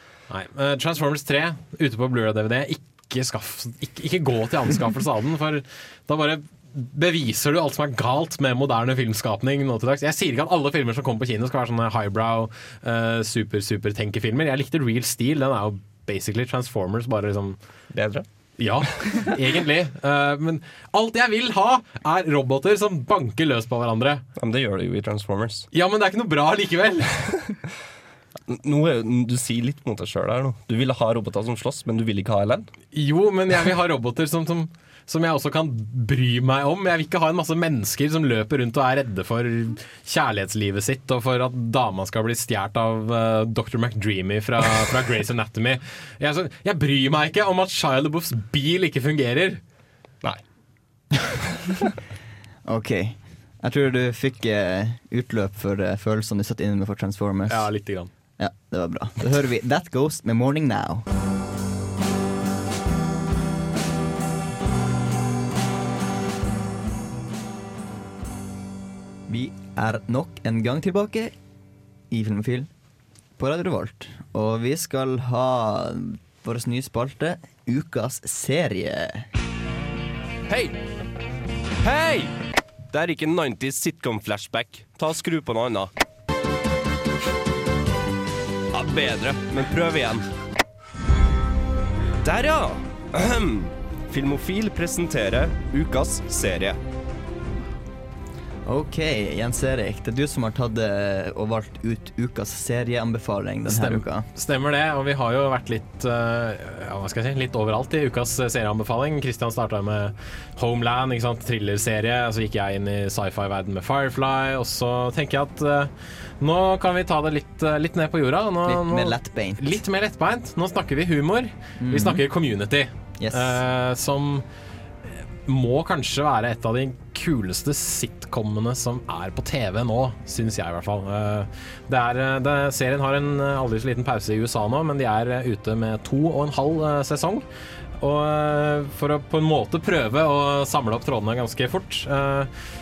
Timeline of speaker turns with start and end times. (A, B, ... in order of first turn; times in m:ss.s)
0:00.3-0:17.6 A
0:17.9-0:18.2 B
0:18.6-0:24.2 A
0:24.4-0:25.7 B
0:25.7-0:27.2 A
0:28.5-0:32.7 B
0:32.9-0:49.6 A
0:52.6-0:57.7 C
0:57.5-0:58.1 A
0:58.4-1:01.0 C
1:09.3-1:11.3 C
1:12.1-1:12.7 C
1:13.4-1:19.3 C
1:20.5-1:20.8 B
1:21.8-1:22.3 B
1:22.9-1:25.9 B
1:28.7-1:30.2 B
1:32.2-1:36.8 B
1:38.6-1:44.2 C
1:43.6-2:04.4 A
1:58.6-1:59.8 C
2:01.8-2:02.2 C
2:03.2-2:03.6 C
2:05.4-2:17.4 A
2:18.0-2:22.5 A